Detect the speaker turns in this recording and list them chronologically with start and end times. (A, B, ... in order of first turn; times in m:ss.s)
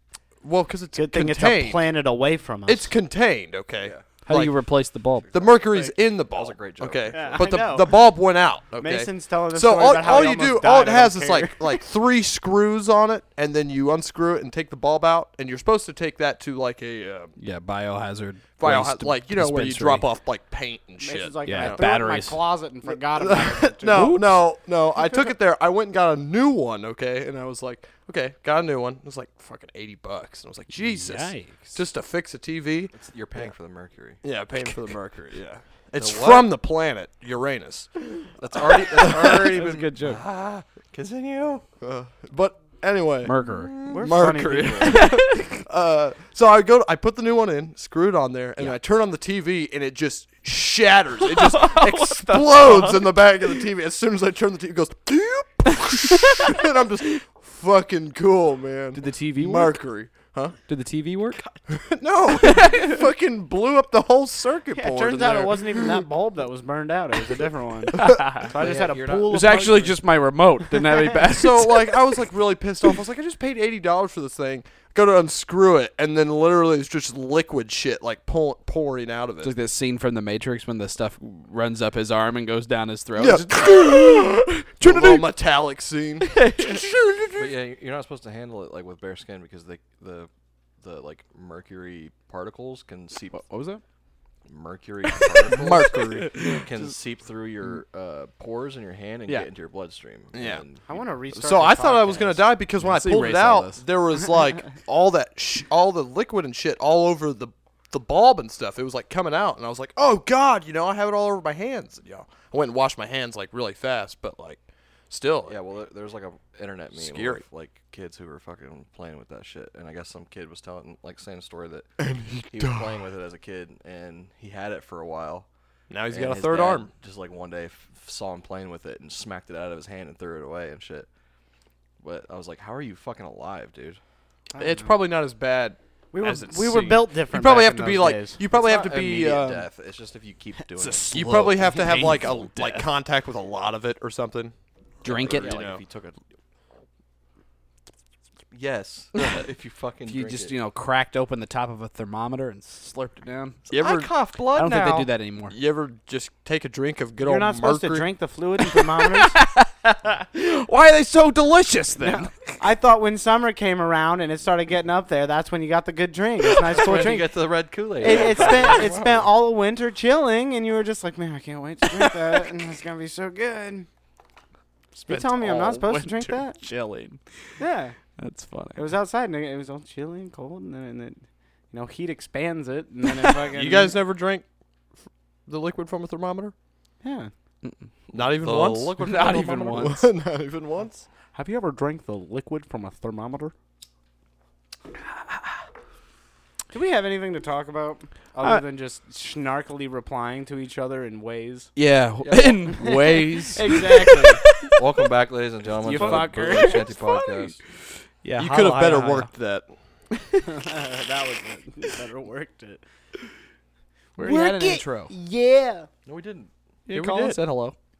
0:00.4-0:01.8 A
0:00.9-0:02.9 B
0:02.6-0:04.5 A
0:03.8-0:04.0 C
0:04.2-0:05.3 D
0:05.3-0:07.4 C
0:05.3-0:17.3 A
0:07.1-0:07.9 B
0:08.8-0:11.6 B
0:17.4-0:20.0 D
0:18.6-0:21.8 A
0:21.0-0:24.2 B
0:21.4-0:22.4 D
0:22.9-0:32.9 A
0:23.9-0:24.2 D
0:30.8-0:31.8 B
0:32.9-0:34.2 C
0:34.2-0:39.9 A
0:36.0-0:36.5 C
0:38.4-0:41.6 C
0:39.6-0:40.2 D
0:41.8-1:00.6 A
0:43.2-0:43.7 D
0:43.4-0:45.0 C
0:43.8-0:45.1 B
0:44.8-0:45.5 D
0:51.2-0:53.0 D
0:56.2-0:56.6 D
0:58.9-0:59.8 D
1:00.7-1:01.4 D
1:01.7-1:06.0 A
1:02.3-1:03.0 D
1:04.7-1:10.0 B
1:08.0-1:08.5 D
1:08.5-1:09.7 C
1:09.3-1:11.9 D
1:11.3-1:19.5 A
1:19.4-1:25.3 D
1:23.2-1:27.1 A
1:26.2-1:27.4 D
1:27.4-1:33.4 C
1:33.3-1:33.8 D
1:34.4-1:40.8 C
1:35.1-1:35.5 D
1:35.5-1:36.4 A
1:36.2-1:36.6 D
1:40.3-1:40.6 A
1:40.8-1:42.5 B
1:41.3-1:54.6 A
1:42.8-1:43.8 D
1:55.1-1:55.6 A
1:55.4-2:01.9 C
1:57.0-1:57.4 A
2:02.0-2:02.9 A
2:02.4-2:05.5 C
2:05.9-2:06.9 A
2:06.1-2:11.1 C
2:12.0-2:14.0 C
2:14.5-2:14.9 B
2:14.6-2:19.7 A
2:16.1-2:18.4 B
2:18.5-2:21.2 C
2:20.8-2:24.5 A
2:20.8-2:22.8 D
2:25.0-2:25.6 D
2:25.0-2:26.2 C
2:25.2-2:25.8 A
2:28.5-2:30.5 C
2:30.0-2:33.6 D
2:33.7-2:34.1 A
2:33.7-2:35.1 C
2:34.5-2:35.5 D
2:35.5-2:38.1 A
2:37.2-2:39.4 B
2:38.8-2:42.6 D
2:42.0-2:53.9 B
2:46.6-2:49.3 C
2:54.9-2:57.2 D
2:55.1-2:56.6 B
2:57.6-2:58.0 B
2:58.2-2:58.8 D
2:58.7-3:04.0 B
3:03.5-3:04.4 A
3:05.4-3:06.5 A
3:07.0-3:07.3 B
3:08.1-3:09.4 C
3:08.1-3:11.0 A
3:09.0-3:10.0 D
3:11.3-3:13.5 B
3:16.7-3:21.7 B
3:21.8-3:24.7 D
3:22.2-3:22.8 C
3:22.7-3:24.4 B
3:24.7-3:27.6 C
3:25.8-3:27.5 D
3:25.9-3:26.8 B
3:28.2-3:29.3 D
3:28.4-3:29.7 A
3:30.4-3:32.8 B
3:34.2-3:35.1 D
3:34.2-3:35.9 B
3:36.0-3:36.5 C
3:36.9-3:37.8 D
3:36.9-3:37.4 A